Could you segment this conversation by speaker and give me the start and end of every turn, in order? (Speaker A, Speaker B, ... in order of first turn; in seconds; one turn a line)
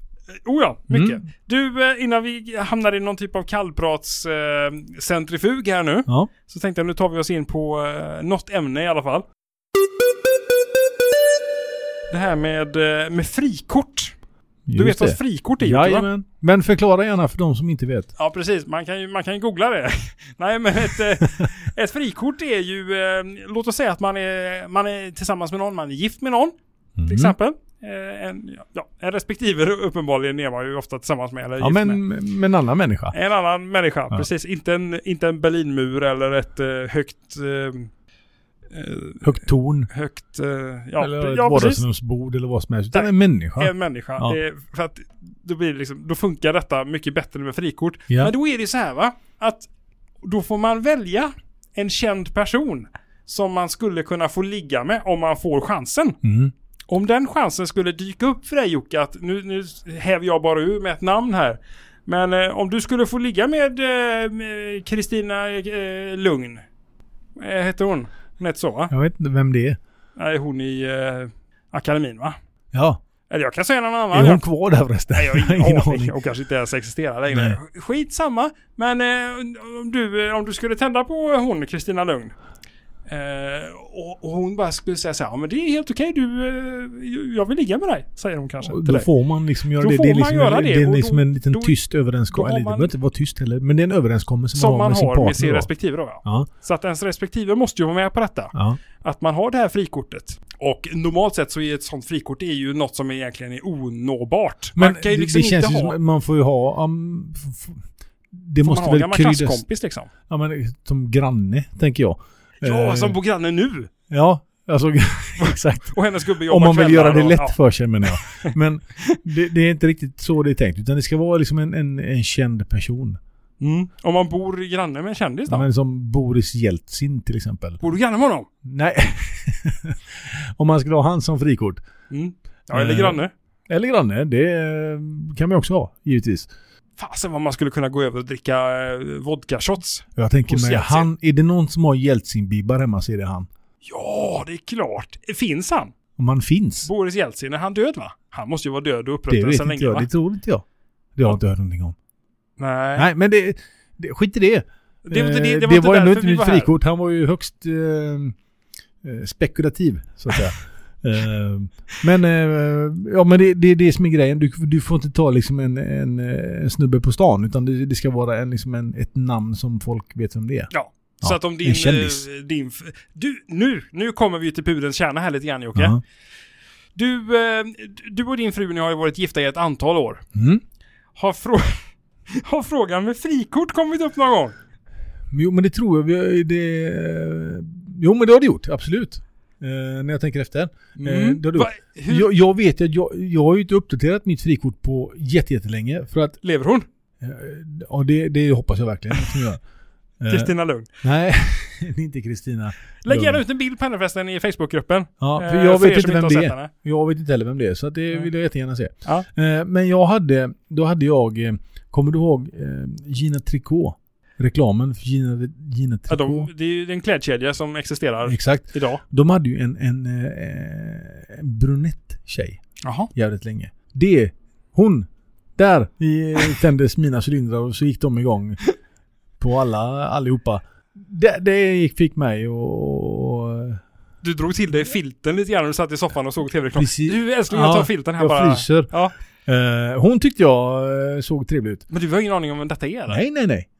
Speaker A: 0.4-9.2
Speaker B: 0.9-1.2
Speaker A: 12.1-14.1
Speaker B: 14.7-18.1
Speaker A: 14.7-16.1
Speaker A: 18.2-26.5
Speaker B: 27.0-27.3
Speaker A: 27.1-32.0
Speaker B: 31.6-33.1
Speaker A: 33.1-37.9
Speaker A: 38.7-41.8
Speaker B: 39.2-39.9
Speaker B: 41.0-44.4
Speaker A: 42.9-49.7
Speaker A: 50.2-56.2
Speaker B: 56.2-56.5
Speaker A: 56.9-66.6
Speaker A: 67.4-68.9
Speaker B: 68.9-69.8
Speaker A: 70.2-72.3
Speaker B: 72.7-73.0
Speaker A: 73.3-74.4
Speaker B: 74.1-76.1
Speaker A: 75.1-82.3
Speaker B: 77.3-77.6
Speaker A: 83.1-89.1
Speaker B: 88.6-95.7
Speaker A: 89.8-91.7
Speaker A: 92.3-92.9
Speaker A: 94.5-106.0
Speaker B: 104.8-109.6
Speaker A: 108.6-110.1
Speaker B: 110.3-113.2
Speaker A: 112.6-113.9
Speaker B: 114.1-123.2
Speaker A: 115.4-117.6
Speaker A: 123.6-125.7
Speaker B: 125.5-127.8
Speaker A: 127.8-128.5
Speaker B: 128.6-131.8
Speaker A: 132.1-133.3
Speaker B: 132.7-136.5
Speaker A: 137.0-141.1
Speaker B: 140.2-143.5
Speaker A: 143.8-145.9
Speaker B: 146.2-146.9
Speaker A: 146.8-150.1
Speaker B: 149.3-150.6
Speaker B: 151.2-151.9
Speaker A: 152.6-153.1
Speaker B: 153.0-158.3
Speaker A: 155.0-156.7
Speaker B: 159.0-170.7
Speaker A: 170.7-176.0
Speaker B: 171.2-172.2
Speaker A: 176.9-180.2
Speaker B: 180.3-180.6
Speaker A: 181.2-184.5
Speaker B: 185.3-196.4
Speaker A: 190.9-192.3
Speaker A: 196.4-196.8
Speaker B: 197.2-199.6
Speaker B: 200.2-203.4
Speaker A: 200.3-200.9
Speaker A: 203.0-206.7
Speaker B: 205.2-216.5
Speaker A: 216.1-219.0
Speaker B: 218.3-222.6
Speaker A: 222.8-223.1
Speaker B: 223.1-228.6
Speaker B: 229.4-233.8
Speaker A: 234.2-239.1
Speaker B: 236.8-238.9
Speaker B: 239.4-241.8
Speaker A: 241.9-243.2
Speaker B: 243.1-243.7